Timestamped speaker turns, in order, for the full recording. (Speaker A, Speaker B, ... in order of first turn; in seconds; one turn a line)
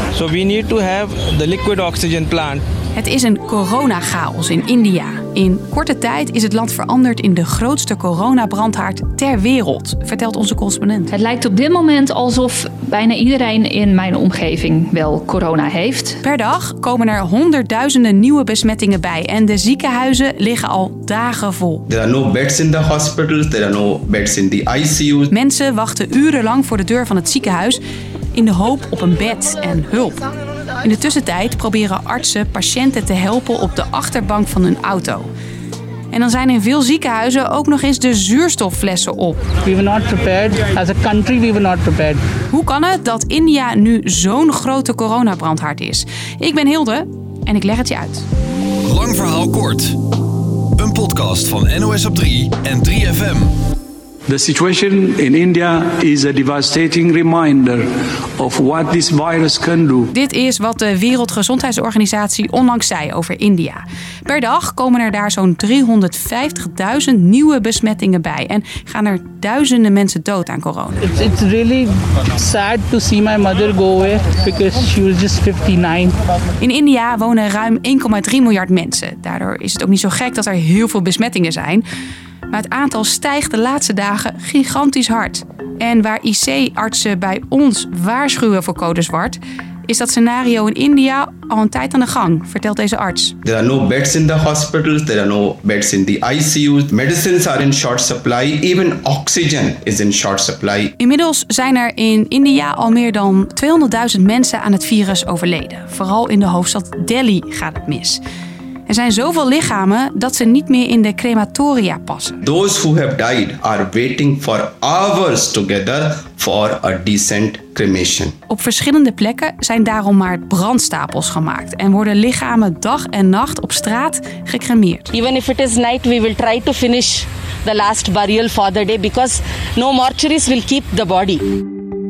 Speaker A: 0.1-2.6
Speaker B: 2.9-11.1
Speaker C: 11.1-16.2
Speaker B: 16.2-21.8
Speaker D: 21.9-25.3
Speaker B: 25.3-27.8
Speaker B: 28.3-30.2
Speaker B: 30.8-35.3
Speaker B: 36.1-39.4
Speaker E: 39.6-42.2
Speaker B: 42.5-48.2
Speaker F: 48.9-50.0
Speaker F: 50.8-53.5
Speaker G: 54.3-57.9
Speaker G: 58.4-60.1
Speaker B: 60.1-71.1
Speaker E: 71.0-76.1
Speaker B: 76.6-81.8
Speaker B: 82.5-93.3
Speaker D: 93.4-100.9
Speaker B: 101.0-108.2
Speaker B: 108.9-112.4
Speaker D: 112.4-118.3
Speaker B: 118.5-125.1
Speaker H: 125.1-131.4